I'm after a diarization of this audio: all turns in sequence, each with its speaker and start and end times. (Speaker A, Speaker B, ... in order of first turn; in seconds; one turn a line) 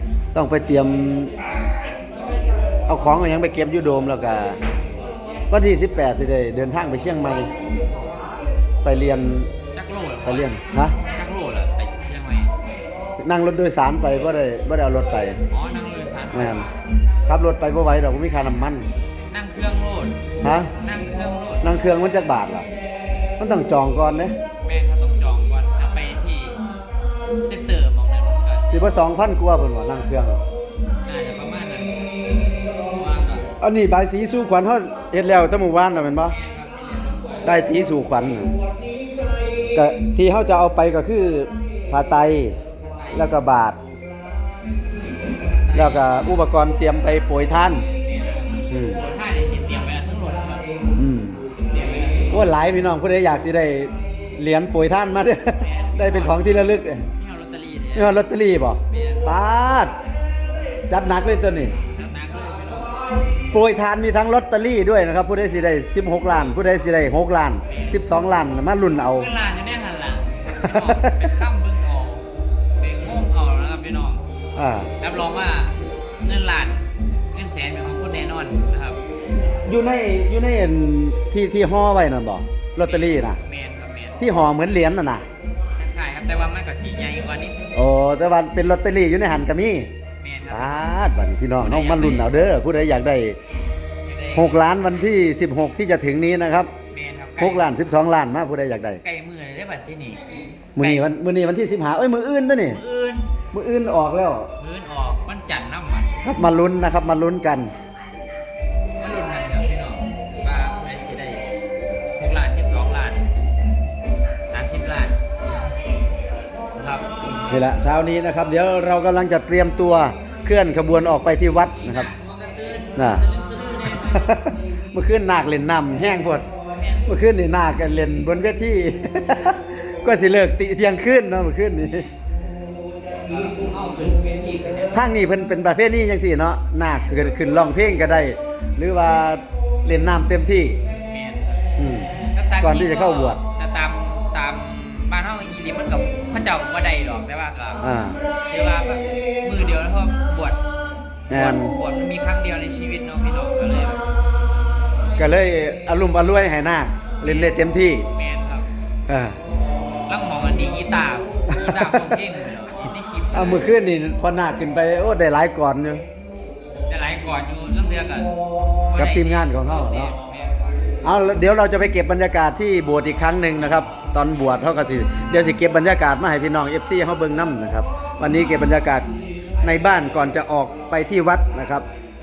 Speaker A: 0.3-1.3
Speaker A: 2.9-4.6
Speaker A: 5.5-7.5
Speaker A: 8.8-9.5
Speaker B: 9.7-12.5
Speaker A: 10.2-11.0
Speaker A: 13.2-15.4
Speaker B: 15.5-16.7
Speaker A: 16.3-16.7
Speaker A: 17.3-18.9
Speaker B: 19.3-20.2
Speaker A: 20.4-20.7
Speaker B: 20.8-21.7
Speaker A: 21.6-22.7
Speaker A: 23.4-24.4
Speaker B: 24.6-26.6
Speaker B: 27.5-28.8
Speaker A: 28.7-30.4
Speaker B: 31.1-32.0
Speaker B: 32.9-33.5
Speaker A: 33.6-36.4
Speaker B: 36.3-37.5
Speaker A: 37.4-38.5
Speaker A: 39.8-42.6
Speaker B: 42.8-43.3
Speaker A: 43.1-43.8
Speaker B: 45.3-46.4
Speaker A: 45.7-47.9
Speaker B: 48.0-50.7
Speaker A: 48.7-49.0
Speaker A: 51.0-51.4
Speaker B: 51.7-52.5
Speaker A: 52.3-57.1
Speaker B: 55.6-58.2
Speaker A: 57.9-59.9
Speaker B: 58.9-59.3
Speaker A: 60.9-61.8
Speaker B: 61.9-63.0
Speaker A: 63.5-69.3
Speaker B: 67.7-68.0
Speaker B: 69.2-72.3
Speaker A: 70.6-71.3
Speaker B: 72.8-74.2
Speaker A: 74.6-74.9
Speaker B: 75.0-79.0
Speaker A: 79.7-83.4
Speaker B: 82.8-84.3
Speaker A: 84.2-85.2
Speaker B: 85.8-87.8
Speaker A: 87.7-89.9
Speaker B: 90.2-90.9
Speaker A: 90.5-93.4
Speaker B: 91.6-92.3
Speaker B: 94.0-94.6
Speaker A: 94.3-96.7
Speaker B: 96.9-97.7
Speaker A: 97.4-99.0
Speaker B: 99.0-100.2
Speaker A: 100.8-102.8
Speaker B: 100.8-101.1
Speaker B: 102.7-103.3
Speaker A: 103.5-104.5
Speaker B: 104.6-106.2
Speaker A: 106.2-107.7
Speaker B: 109.0-111.4
Speaker B: 112.2-113.3
Speaker B: 114.5-115.2
Speaker B: 116.8-117.1
Speaker A: 117.4-122.1
Speaker B: 121.8-124.4
Speaker A: 123.0-123.2
Speaker A: 124.0-126.5
Speaker B: 126.8-127.1
Speaker A: 127.1-132.1
Speaker B: 133.3-135.1
Speaker A: 134.9-140.8
Speaker B: 141.0-141.7
Speaker A: 141.8-142.1
Speaker B: 142.3-147.8
Speaker A: 142.6-143.4
Speaker A: 147.8-148.2
Speaker B: 148.5-150.6
Speaker A: 151.3-151.7
Speaker B: 151.3-154.1
Speaker A: 155.2-158.1
Speaker B: 157.2-157.6
Speaker B: 158.1-158.7
Speaker A: 159.1-159.4
Speaker B: 160.1-163.7
Speaker A: 161.5-162.2
Speaker A: 163.3-166.0
Speaker B: 166.9-168.3
Speaker B: 168.9-170.6
Speaker A: 168.9-170.2
Speaker A: 171.0-179.1
Speaker A: 179.6-181.8